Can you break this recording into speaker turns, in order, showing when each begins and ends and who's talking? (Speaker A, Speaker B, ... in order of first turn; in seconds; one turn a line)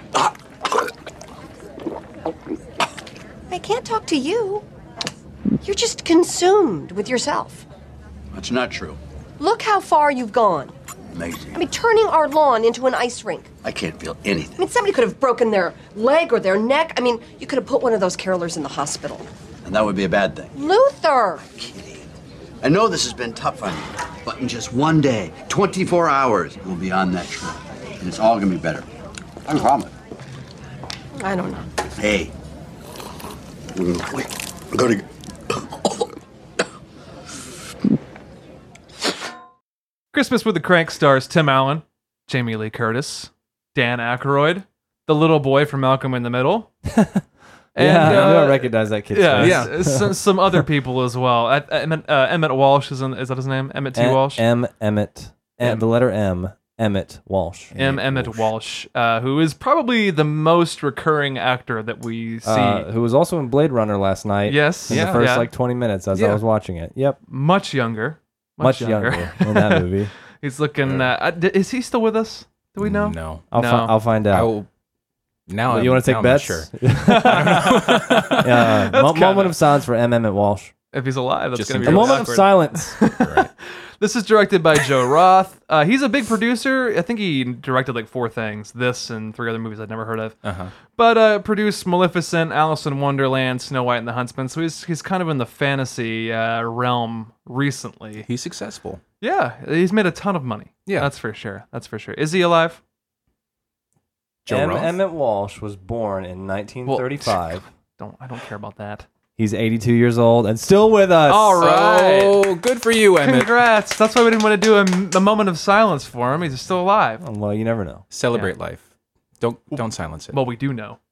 Speaker A: 3.5-4.6
Speaker A: 5.6-7.7
Speaker B: 8.3-9.0
Speaker A: 9.4-10.8
Speaker B: 11.1-11.6
Speaker A: 11.6-13.5
Speaker B: 13.6-14.6
Speaker A: 14.6-19.3
Speaker B: 19.6-20.5
Speaker A: 20.6-21.4
Speaker B: 21.5-22.1
Speaker B: 22.6-28.9
Speaker B: 29.5-29.9
Speaker A: 31.2-31.6
Speaker B: 32.0-32.3
Speaker B: 33.8-35.0
Speaker C: 40.1-46.7
Speaker D: 46.9-47.2
Speaker C: 47.8-54.4
Speaker D: 47.8-50.6
Speaker E: 48.0-48.3
Speaker E: 49.4-50.0
Speaker D: 54.0-57.9
Speaker E: 57.7-58.4
Speaker C: 57.8-62.9
Speaker D: 62.4-67.2
Speaker C: 64.5-65.5
Speaker E: 64.9-65.2
Speaker E: 66.1-66.4
Speaker C: 67.3-74.0
Speaker D: 68.6-70.1
Speaker E: 70.8-71.1
Speaker E: 72.8-73.5
Speaker D: 73.5-74.5
Speaker E: 74.3-74.7
Speaker E: 75.5-78.5
Speaker D: 75.7-77.8
Speaker C: 77.1-79.6
Speaker D: 78.4-80.7
Speaker C: 80.9-90.4
Speaker E: 81.5-82.3
Speaker D: 81.8-83.0
Speaker E: 83.1-83.5
Speaker E: 90.4-90.7
Speaker C: 90.9-98.3
Speaker E: 98.2-99.0
Speaker C: 99.2-102.8
Speaker E: 104.5-104.9
Speaker D: 104.5-107.6
Speaker C: 106.9-109.1
Speaker D: 109.4-111.6
Speaker C: 111.3-112.4
Speaker E: 111.6-113.5
Speaker C: 113.2-117.2
Speaker D: 117.2-118.0
Speaker E: 118.1-118.9
Speaker E: 119.4-120.4
Speaker C: 119.7-121.0